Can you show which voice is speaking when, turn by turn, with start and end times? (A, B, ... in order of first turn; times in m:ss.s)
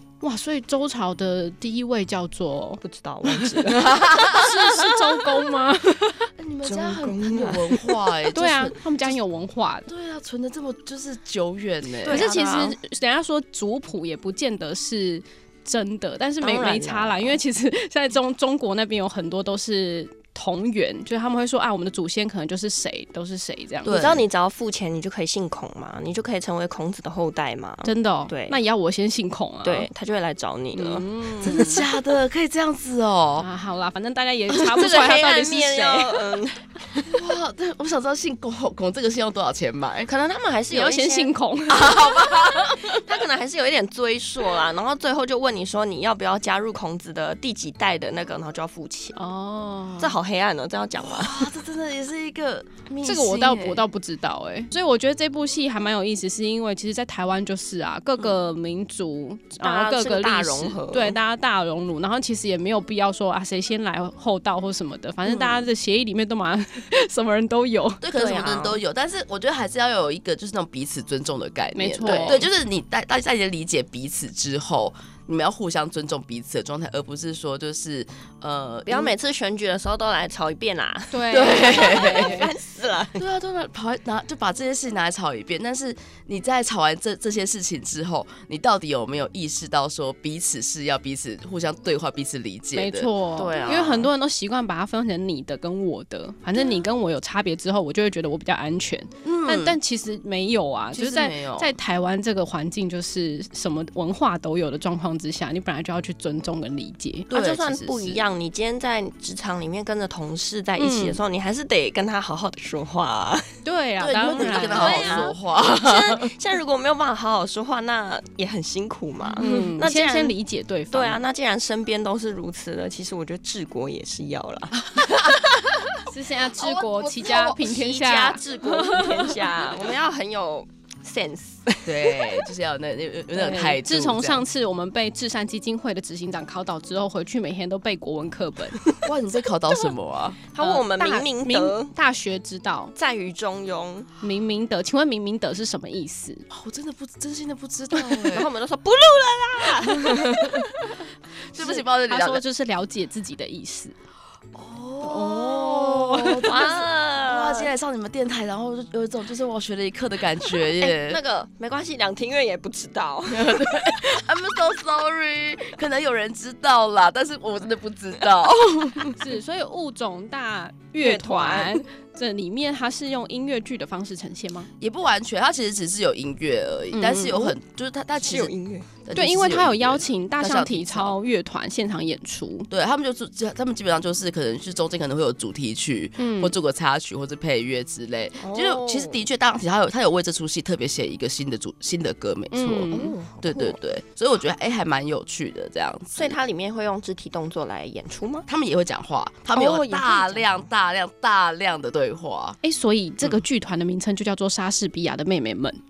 0:00.2-0:02.8 A
0:02.8-0:03.9 B
0:03.5-0:06.3 A
0:03.7-0:05.0 C
0:06.4-0:09.2 C
0:06.6-0:08.1 B
0:08.3-0:09.9 A
0:09.8-0:12.3 C
0:12.0-0:12.8 B
0:12.0-0:23.9 A
0:16.4-0:17.4 B
0:23.8-0:24.2 C
0:23.8-0:28.6 B
0:27.8-0:29.9 A
0:29.6-0:31.8 B
0:30.7-0:31.8 A
0:31.4-0:33.5 C
0:33.4-0:36.4 A
0:34.5-0:37.1 B
0:37.1-0:40.1 C
0:40.0-0:41.3 B
0:40.7-0:42.2 A
0:41.7-0:43.1 C
0:42.3-0:49.2 B
0:49.1-0:50.2 A
0:50.0-0:51.5 B
0:51.0-0:53.8 C
0:53.0-1:08.0 A
0:59.6-1:01.2 B
1:05.2-1:05.7 C
1:08.0-1:19.1 C
1:08.1-1:08.8 B
1:11.7-1:12.4 A
1:12.0-1:12.4 B
1:18.9-1:23.2 B
1:21.1-1:22.5 A
1:21.3-1:22.4 C
1:23.2-1:34.0 C
1:32.7-1:47.3 A
1:33.4-1:34.1 B
1:39.2-1:39.8 C
1:40.9-1:41.7 C
1:47.3-1:48.2 C
1:47.3-1:53.4 B
1:50.8-1:51.2 A
1:53.6-1:55.4 A
1:54.0-1:56.3 C
1:54.3-2:00.3 B
1:59.4-2:01.2 A
1:59.4-2:00.0 C
2:00.9-2:04.8 B
2:04.8-2:06.0 C
2:06.0-2:09.5 A
2:06.6-2:07.6 C
2:07.5-2:12.2 B
2:11.8-2:14.4 C
2:13.3-2:18.8 A
2:19.0-2:20.4 C
2:20.5-2:21.9 B
2:20.6-2:22.9 A
2:23.0-2:24.1 B
2:24.2-2:26.4 A
2:26.5-2:28.5 C
2:28.3-2:30.7 B
2:31.5-2:32.4 C
2:31.5-2:33.9 A
2:34.5-2:41.2 C
2:35.0-2:36.5 A
2:36.3-2:37.7 B
2:40.7-2:44.0 B
2:43.3-2:49.2 C
2:49.2-2:54.7 A
2:51.0-2:51.8 B
2:54.8-2:58.5 C
2:56.9-2:57.6 A
2:58.2-2:58.9 B
2:59.0-3:01.2 C
2:59.1-3:02.7 A
3:02.7-3:12.9 C
3:06.2-3:06.5 A
3:08.4-3:09.2 B
3:12.5-3:13.1 A
3:12.9-3:13.8 B
3:13.4-3:16.4 C
3:16.1-3:18.5 B
3:18.5-3:22.6 C
3:19.5-3:20.6 B
3:22.6-3:25.8 A